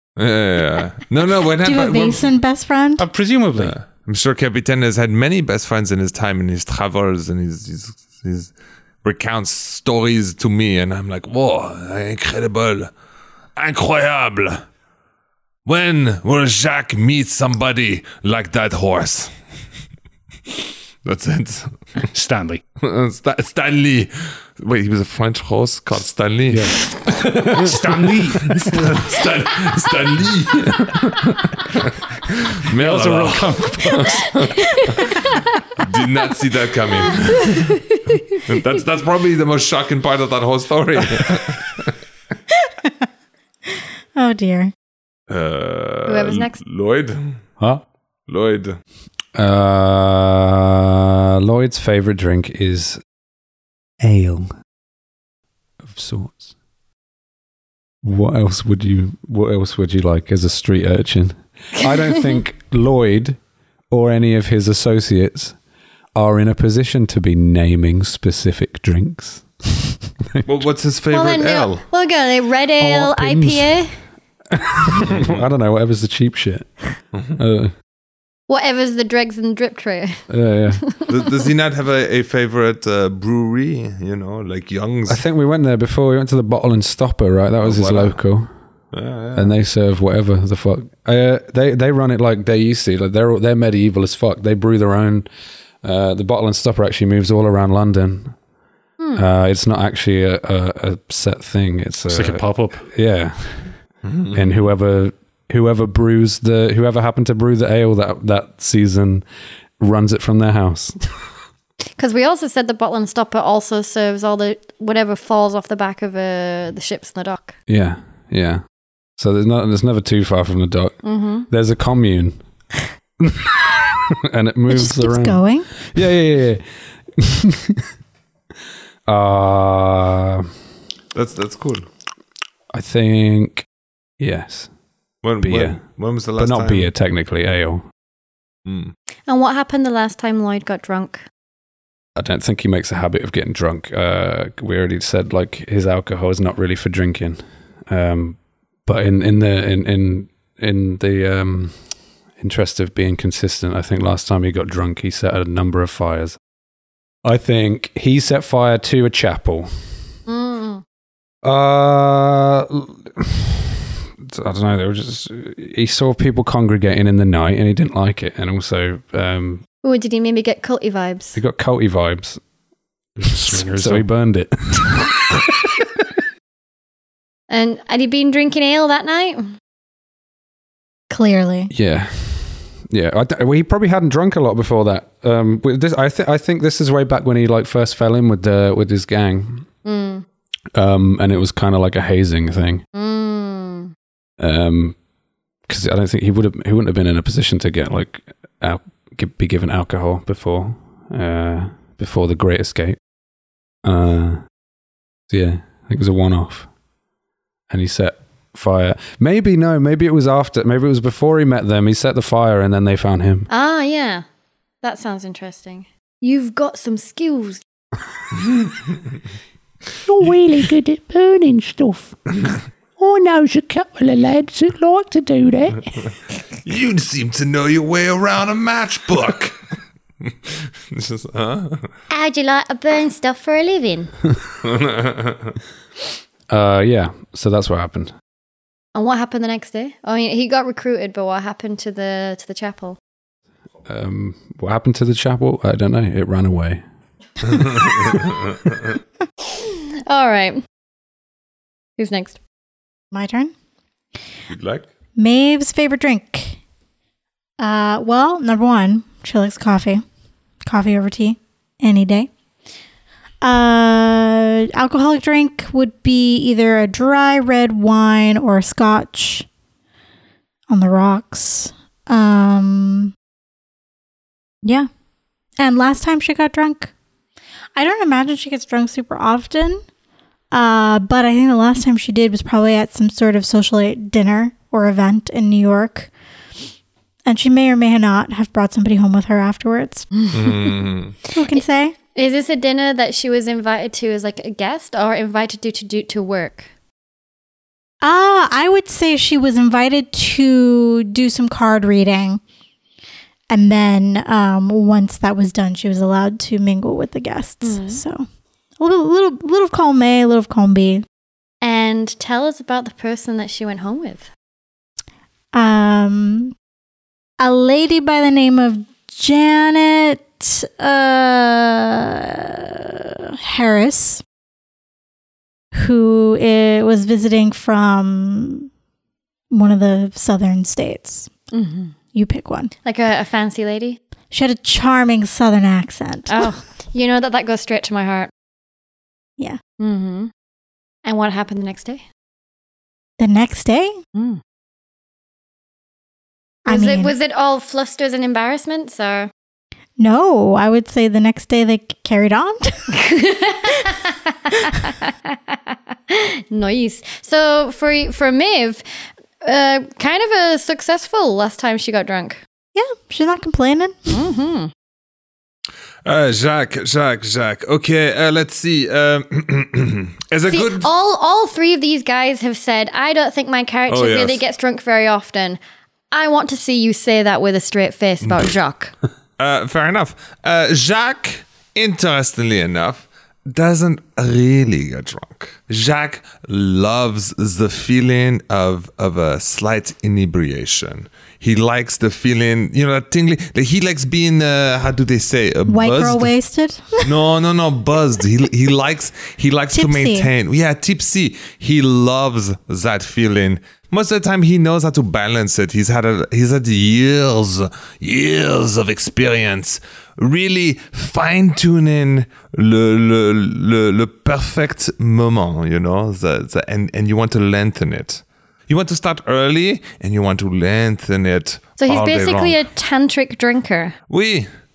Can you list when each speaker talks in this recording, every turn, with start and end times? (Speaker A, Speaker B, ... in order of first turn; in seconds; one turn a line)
Speaker A: 0.2-2.3
Speaker B: 1.6-3.1
Speaker C: 3.0-3.8
Speaker A: 3.6-8.5
Speaker A: 9.0-12.9
Speaker A: 13.6-14.7
Speaker A: 15.7-19.3
Speaker A: 21.0-22.1
Speaker C: 22.1-22.6
Speaker A: 22.8-35.2
Speaker C: 26.5-26.8
Speaker C: 27.5-29.0
Speaker C: 32.7-34.1
Speaker D: 34.5-35.1
Speaker A: 35.8-37.8
Speaker D: 37.4-38.4
Speaker A: 38.5-42.0
Speaker B: 44.2-44.7
Speaker A: 45.3-47.4
Speaker D: 46.1-46.6
Speaker A: 48.3-48.8
Speaker E: 49.4-53.0
Speaker E: 54.0-54.5
Speaker E: 55.8-56.5
Speaker E: 58.0-63.4
Speaker E: 63.9-65.6
Speaker E: 66.2-69.5
Speaker A: 70.5-71.8
Speaker D: 71.1-73.9
Speaker E: 72.8-73.8
Speaker E: 74.5-77.7
Speaker A: 75.1-75.4
Speaker D: 78.5-80.2
Speaker E: 80.3-80.8
Speaker D: 80.8-81.2
Speaker A: 81.1-85.2
Speaker E: 85.1-88.5
Speaker A: 87.6-88.2
Speaker A: 88.9-89.5
Speaker E: 89.3-95.3
Speaker E: 95.8-98.4
Speaker E: 99.2-103.7
Speaker C: 102.1-102.9
Speaker A: 104.1-104.4
Speaker E: 104.3-109.2
Speaker E: 109.8-111.0
Speaker D: 112.0-117.5
Speaker E: 117.7-118.6
Speaker E: 119.2-122.4
Speaker D: 121.0-121.5
Speaker E: 123.2-126.7
Speaker B: 124.7-125.8
Speaker E: 127.2-127.9
Speaker E: 129.1-130.5
Speaker A: 131.1-131.9
Speaker E: 132.7-133.7
Speaker E: 134.2-134.7
Speaker A: 135.2-136.9
Speaker E: 135.4-135.8
Speaker E: 136.4-137.9
Speaker A: 138.7-138.9
Speaker D: 139.3-141.3
Speaker E: 142.2-151.8
Speaker E: 152.4-156.4
Speaker E: 157.2-159.8
Speaker D: 160.3-160.8
Speaker E: 161.4-169.6
Speaker D: 169.8-171.4
Speaker E: 171.3-172.4
Speaker C: 173.2-174.1
Speaker E: 173.5-175.4
Speaker D: 177.5-179.6
Speaker B: 181.1-181.7
Speaker E: 181.7-189.7
Speaker D: 189.8-190.2
Speaker E: 190.7-192.8
Speaker D: 192.9-193.9
Speaker E: 194.4-195.0
Speaker E: 195.7-203.0
Speaker E: 203.8-204.4
Speaker E: 205.3-206.7
Speaker E: 207.7-213.5
Speaker D: 213.5-214.2
Speaker D: 214.8-217.6
Speaker F: 220.1-222.2
Speaker F: 223.0-226.1
Speaker A: 226.7-229.6
Speaker A: 230.2-231.9
Speaker D: 232.1-234.1
Speaker A: 234.6-235.6
Speaker E: 236.5-238.1
Speaker D: 238.9-243.0
Speaker E: 243.9-246.8
Speaker A: 247.5-248.2
Speaker D: 249.5-250.6
Speaker D: 252.0-252.4
Speaker B: 253.1-253.5
Speaker A: 254.5-254.9
Speaker B: 255.2-256.6
Speaker B: 257.6-260.0
Speaker B: 260.7-262.3
Speaker B: 263.4-269.5
Speaker B: 270.7-273.1
Speaker B: 275.6-276.9
Speaker B: 277.8-279.8
Speaker B: 280.5-286.1
Speaker B: 287.3-290.2
Speaker A: 290.3-291.2
Speaker B: 291.3-291.9
Speaker D: 292.1-296.7
Speaker B: 298.0-302.4
Speaker B: 303.5-308.2
Speaker D: 307.6-308.0
Speaker B: 308.8-311.0
Speaker D: 311.6-314.3
Speaker B: 315.5-316.6
Speaker B: 317.4-324.2
Speaker B: 325.8-328.7
Speaker B: 329.5-331.3
Speaker D: 331.5-331.9
Speaker B: 332.1-332.7
Speaker D: 332.9-334.0
Speaker B: 334.3-336.4
Speaker D: 336.3-338.3
Speaker D: 339.8-340.3
Speaker D: 341.1-342.0
Speaker B: 343.2-344.0
Speaker D: 344.1-344.4
Speaker B: 346.7-347.1
Speaker D: 346.7-349.3
Speaker B: 350.0-352.9
Speaker D: 352.9-358.8
Speaker D: 359.4-362.4
Speaker B: 362.8-364.1
Speaker D: 364.1-364.7
Speaker A: 366.1-370.9
Speaker D: 370.5-375.6
Speaker A: 373.9-374.4
Speaker D: 376.1-378.9
Speaker A: 378.3-378.5
Speaker A: 379.4-396.3
Speaker B: 395.7-397.0
Speaker A: 397.0-422.6
Speaker B: 399.7-400.3
Speaker D: 421.8-423.9
Speaker A: 424.1-424.5